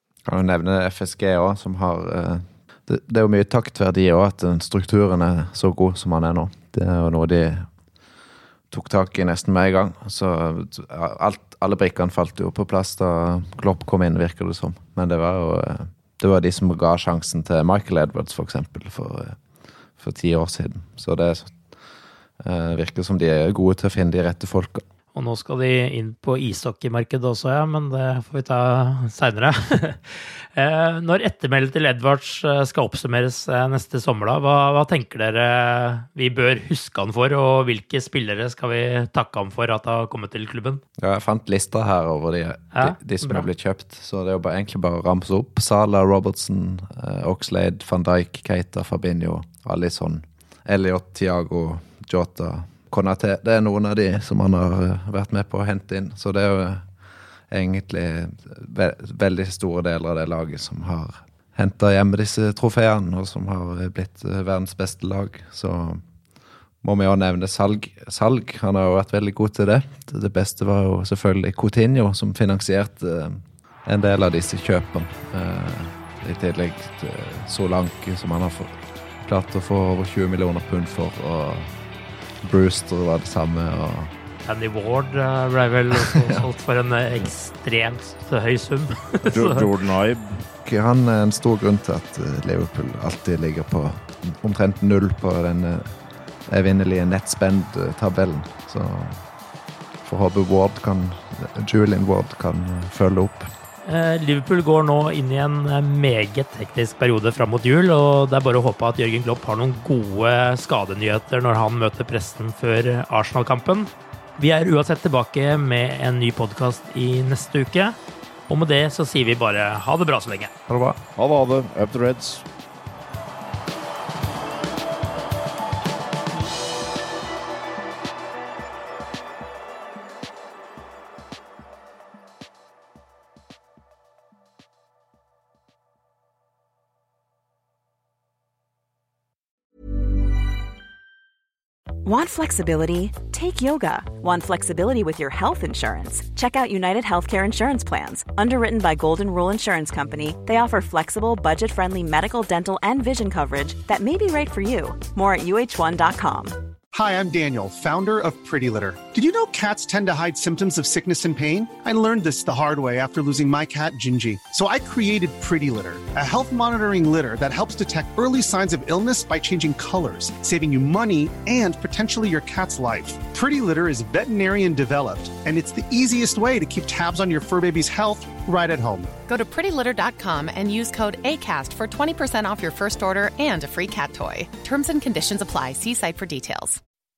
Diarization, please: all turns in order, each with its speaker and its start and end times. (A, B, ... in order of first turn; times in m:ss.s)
0:00.2-0:07.7 A
0:08.7-0:19.4 A
0:20.0-0:21.6 A
0:22.4-0:24.8 A
0:25.1-0:40.8 B
0:41.0-0:56.9 A
0:42.8-0:43.5 B
0:57.5-1:06.0 A
1:06.8-1:21.7 A
1:22.4-1:24.1 A
1:24.4-1:29.6 B
1:26.0-1:26.4 A
1:29.3-1:30.4 C
1:30.6-1:35.9 A
1:36.5-1:39.2 A
1:40.0-1:43.5 A
1:43.8-1:58.0 B
1:58.5-2:00.5 B
2:00.7-2:01.0 A
2:01.2-2:02.4 C
2:22.0-2:36.6 D
2:36.9-2:59.2 E
2:59.3-3:06.8 F